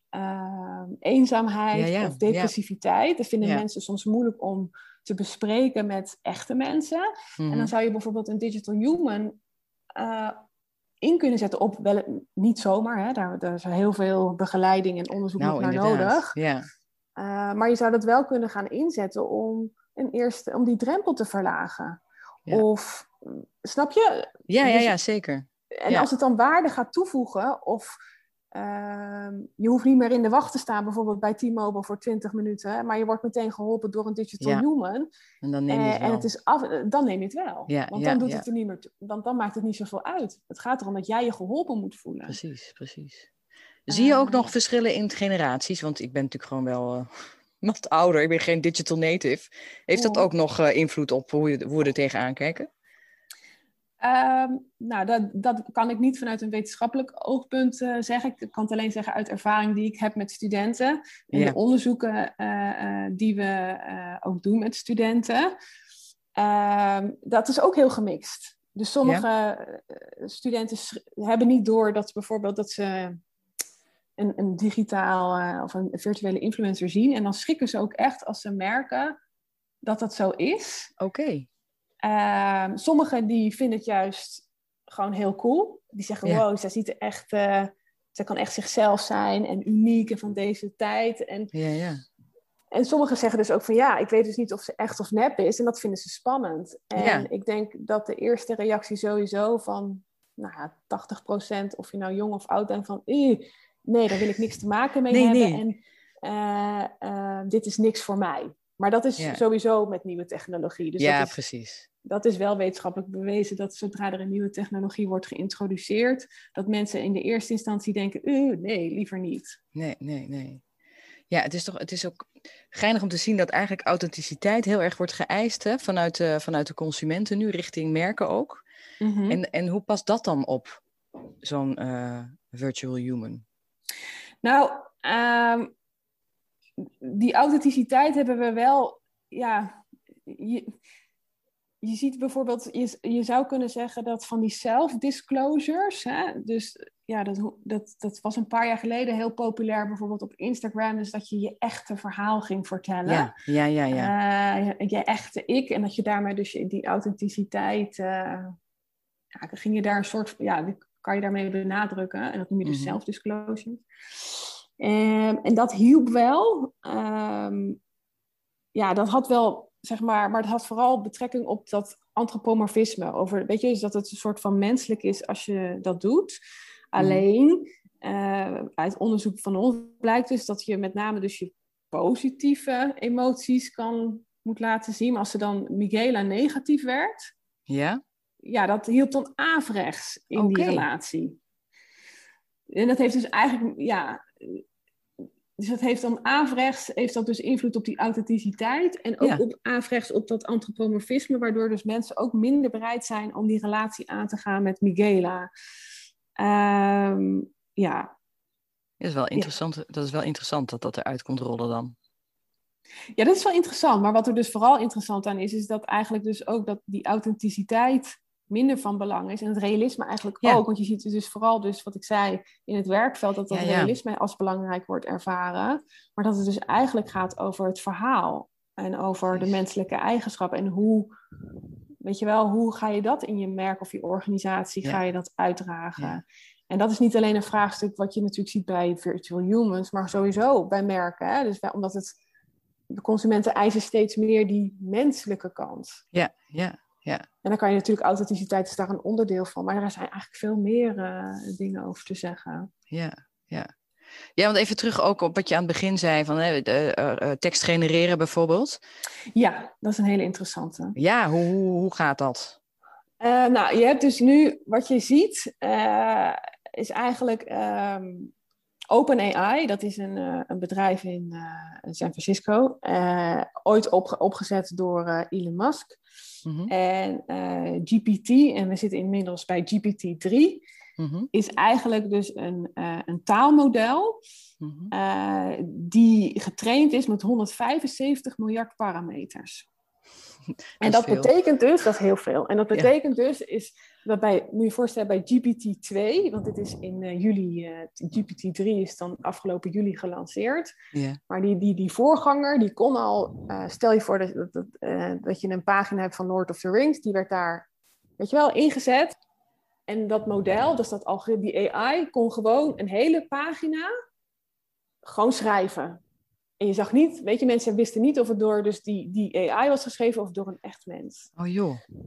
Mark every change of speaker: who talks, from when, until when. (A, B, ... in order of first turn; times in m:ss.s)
0:00.1-0:09.4 A
0:01.7-0:02.5 B
0:07.4-0:07.7 B
0:10.0-0:10.4 A
0:11.0-0:16.4 A
0:15.4-0:16.7 B
0:17.2-0:24.9 A
0:24.5-0:26.1 B
0:25.8-0:28.0 A
0:28.5-0:35.1 A
0:35.4-0:36.3 B
0:35.7-0:42.4 A
0:37.7-0:38.4 B
0:42.3-0:43.3 B
0:43.9-0:47.1 B
0:43.9-0:44.5 A
0:47.6-0:52.7 B
0:49.9-0:50.2 A
0:54.0-1:05.5 A
1:06.4-1:13.2 A
1:14.2-1:19.2 A
1:19.8-1:20.9 A
1:21.0-1:21.5 B
1:22.0-1:31.5 A
1:31.5-1:32.0 B
1:32.7-1:51.4 A
1:37.0-1:37.3 B
1:45.1-1:45.6 B
1:51.0-1:51.9 B
1:52.0-1:59.6 A
1:59.7-2:00.6 B
2:01.3-2:08.6 B
2:09.0-2:09.4 A
2:09.3-2:10.8 B
2:11.4-2:13.4 B
2:14.4-2:15.7 A
2:17.0-2:20.7 A
2:21.8-2:33.3 A
2:33.0-2:34.1 B
2:33.9-2:38.6 A
2:39.4-2:47.8 A
2:42.6-2:43.0 B
2:48.7-2:56.4 A
2:56.9-3:07.3 A
2:57.0-2:57.2 B
3:07.7-3:08.0 B
3:08.4-3:11.4 A
3:10.3-3:10.9 B
3:12.7-3:14.6 A
3:15.6-3:25.5 A
3:26.4-3:28.1 A
3:29.0-3:31.9 B
3:33.2-3:51.1 A
3:43.5-3:43.9 B
3:52.0-4:02.2 A
4:02.9-4:06.0 A
4:06.1-4:07.2 B
4:07.4-4:12.7 A
4:12.9-4:13.7 B
4:14.4-4:18.8 B
4:19.3-4:21.0 A
4:21.0-4:22.6 B
4:23.2-4:28.3 A
4:28.9-4:36.0 A
4:36.4-4:36.7 B
4:36.7-4:40.6 A
4:41.0-4:41.3 B
4:41.3-4:44.2 A
4:44.6-4:44.9 B
4:44.9-4:49.7 A
4:50.8-4:51.3 B
4:50.8-5:00.7 A
5:00.9-5:01.2 B
5:01.3-5:07.7 A
5:08.2-5:09.1 A
5:09.9-5:13.9 A
5:15.0-5:16.0 A
5:16.6-5:21.3 A
5:21.4-5:21.8 B